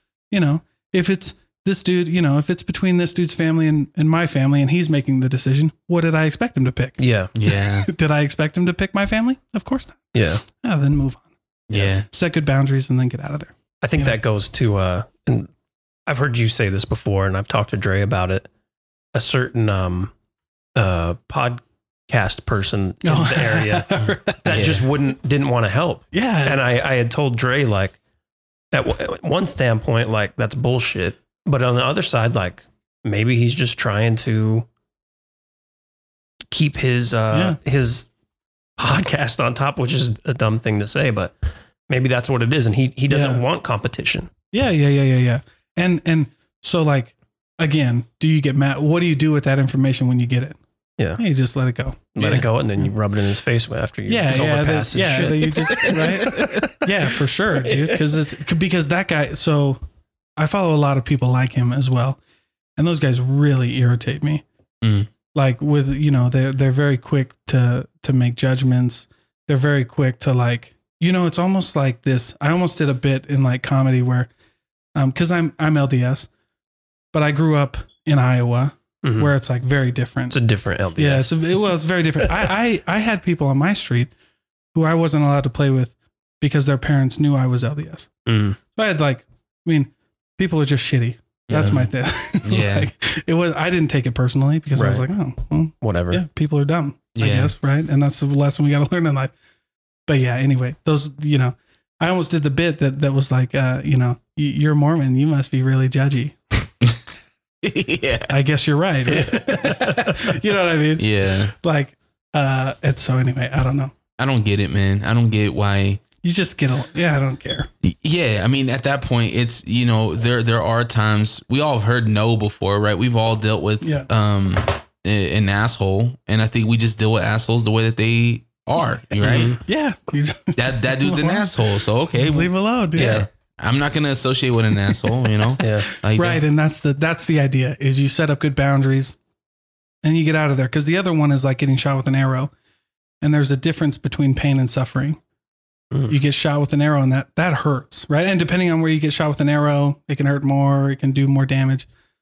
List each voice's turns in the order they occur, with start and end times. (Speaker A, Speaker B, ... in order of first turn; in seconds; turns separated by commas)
Speaker A: 0.3-11.3, Speaker B: 7.0-7.3, Speaker C: 7.3-7.9, Speaker B: 10.1-10.4, Speaker C: 11.7-12.1, Speaker A: 12.1-14.2, Speaker B: 13.8-15.5, Speaker B: 16.1-18.5, Speaker B: 19.1-20.1, Speaker B: 20.8-28.0, Speaker A: 23.0-24.6, Speaker C: 24.5-24.9, Speaker A: 26.1-26.6, Speaker B: 28.7-34.7, Speaker B: 36.5-38.1, Speaker A: 37.3-37.6, Speaker B: 38.8-41.4, Speaker B: 41.9-44.3, Speaker A: 43.1-43.4, Speaker A: 44.5-50.6, Speaker A: 51.2-52.5, Speaker B: 52.1-56.8, Speaker A: 54.1-59.8, Speaker C: 55.7-56.7, Speaker B: 57.5-58.1, Speaker A: 60.4-62.2, Speaker A: 62.8-64.4, Speaker C: 64.8-65.1, Speaker A: 65.3-74.3, Speaker A: 75.0-76.3, Speaker A: 77.1-80.4, Speaker B: 79.0-79.3, Speaker B: 80.3-81.3, Speaker A: 81.0-84.1, Speaker A: 84.7-88.1, Speaker B: 88.3-88.6, Speaker A: 88.7-99.3, Speaker B: 91.5-91.8, Speaker C: 91.5-91.9, Speaker C: 92.4-92.9, Speaker B: 94.8-95.0, Speaker B: 95.8-96.2, Speaker C: 97.2-97.5, Speaker A: 100.1-106.4, Speaker C: 107.6-108.3, Speaker A: 108.3-113.9, Speaker B: 109.1-110.4, Speaker C: 111.0-111.5, Speaker C: 114.2-116.0, Speaker A: 116.2-117.7, Speaker C: 117.8-129.6, Speaker A: 123.8-124.1, Speaker B: 129.2-129.6, Speaker A: 129.2-133.2, Speaker C: 130.6-136.4, Speaker B: 133.0-133.3, Speaker B: 135.6-135.9, Speaker A: 135.6-139.2, Speaker A: 140.0-142.5, Speaker A: 143.2-145.2, Speaker A: 146.1-151.9